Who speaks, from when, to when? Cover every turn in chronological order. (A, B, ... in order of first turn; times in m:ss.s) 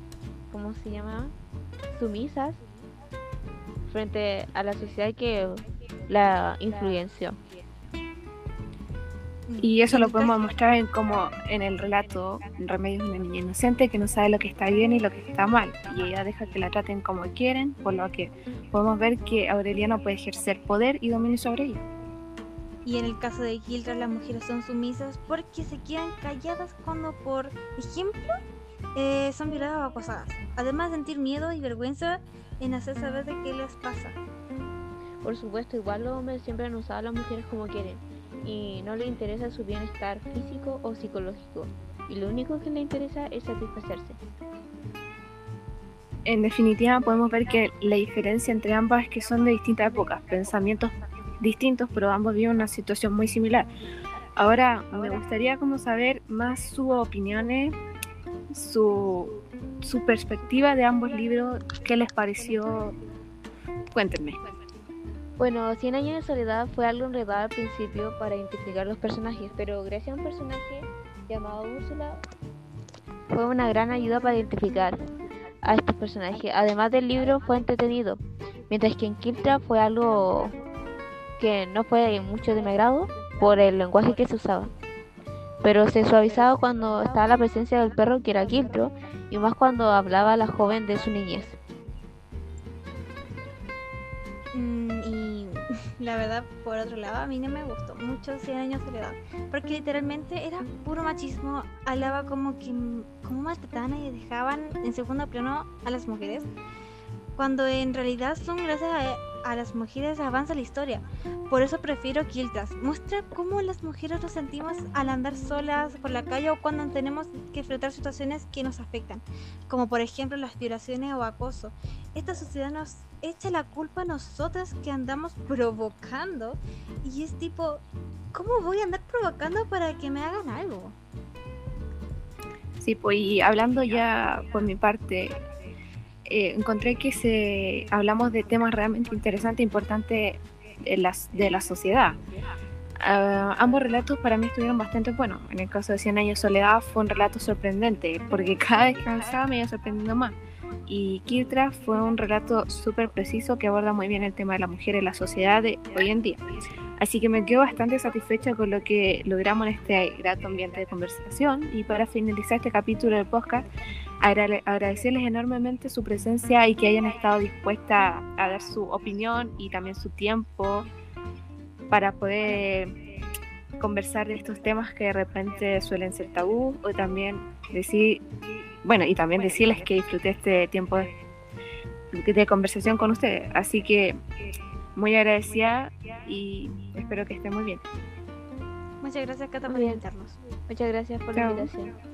0:00.5-0:01.3 A
0:01.9-0:02.6 A
0:03.9-0:07.4 A
0:09.5-0:10.5 B
0:09.6-0:21.8 C
0:22.8-0:28.4 B
0:28.9-0:34.2 B
0:35.2-0:44.2 A
0:46.2-0:53.7 C
0:54.4-0:57.8 C
0:58.5-1:03.0 C
1:03.9-1:04.4 C
1:05.4-1:12.2 A
1:13.3-1:15.1 A
1:15.6-1:20.6 A
1:21.4-1:24.7 A
1:25.6-1:31.6 A
1:34.5-1:46.5 B
1:47.4-2:11.0 B
2:12.8-2:15.4 C
2:16.3-2:22.2 C
2:23.0-2:30.4 C
2:30.9-2:36.4 C
2:37.0-2:43.6 C
2:44.2-2:50.9 C
2:51.9-2:52.9 C
2:53.8-2:58.2 C
2:58.8-3:01.1 C
3:02.1-3:04.2 C
3:05.0-3:07.8 C
3:09.0-3:10.4 B
3:09.6-3:10.0 A
3:10.7-3:11.9 A
3:11.3-3:11.7 C